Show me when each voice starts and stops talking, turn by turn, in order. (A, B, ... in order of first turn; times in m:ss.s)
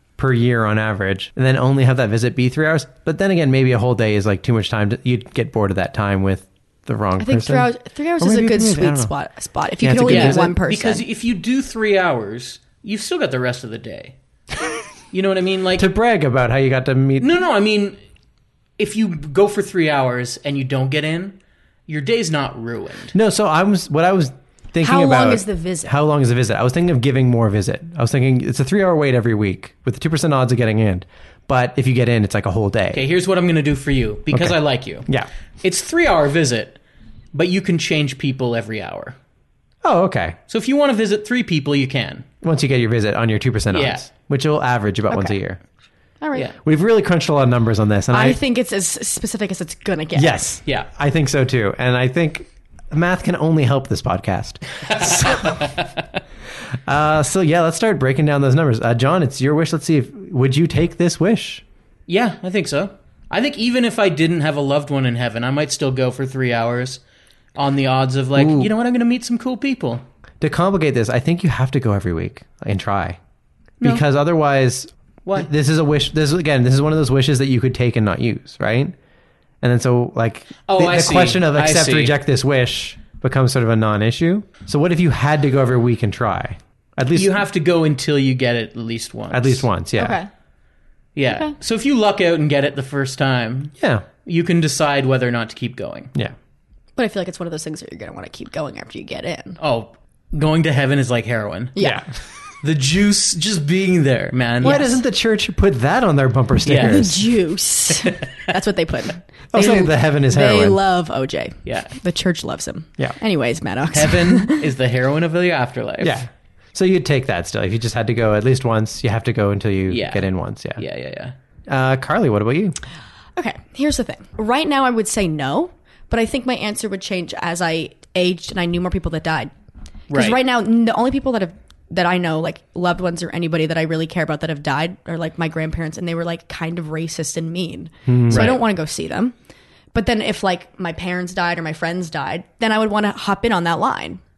0:00.2-0:09.1 A
0:07.2-0:11.0 B
0:09.8-0:10.5 A
0:10.0-0:14.1 C
0:15.1-0:15.9 C
0:15.8-0:17.3 A
0:17.2-0:18.0 C
0:18.8-0:21.4 C
0:21.9-0:23.1 C
0:23.1-0:33.0 A
0:24.8-0:25.9 B
0:32.9-0:35.1 C
0:34.3-0:35.3 A
0:35.6-0:36.8 C
0:37.3-0:39.2 C
0:39.8-0:40.4 A
0:40.5-0:42.3 C
0:42.4-0:45.6 A
0:43.7-0:44.0 C
0:45.1-0:45.3 B
0:46.2-0:46.5 B
0:46.6-0:48.4 A
0:48.1-0:50.4 B
0:50.1-0:55.6 A
0:54.8-0:56.0 C
0:56.8-1:01.6 A
1:02.1-1:07.0 C
1:07.5-1:10.0 C
1:08.4-1:08.7 A
1:10.4-1:13.2 A
1:13.8-1:18.9 A
1:19.6-1:27.4 A
1:20.7-1:22.2 C
1:27.1-1:29.6 C
1:29.3-1:30.2 A
1:30.0-1:30.3 B
1:31.1-1:33.7 C
1:31.3-1:31.5 B
1:33.8-1:34.0 A
1:34.2-1:36.1 C
1:37.0-1:39.6 B
1:39.6-1:41.8 C
1:41.7-1:42.0 B
1:41.8-1:42.1 A
1:42.6-1:44.9 C
1:44.6-1:47.3 A
1:44.6-1:45.0 B
1:46.6-1:47.0 C
1:46.8-1:54.6 B
1:49.5-1:50.8 A
1:51.6-1:51.9 C
1:53.9-1:56.2 C
1:56.0-2:00.8 A
1:59.9-2:01.3 C
2:01.7-2:02.8 A
2:03.4-2:09.5 B
2:10.1-2:10.4 C
2:10.1-2:19.3 B
2:18.1-2:18.5 A
2:18.3-2:18.6 C
2:19.9-2:24.2 B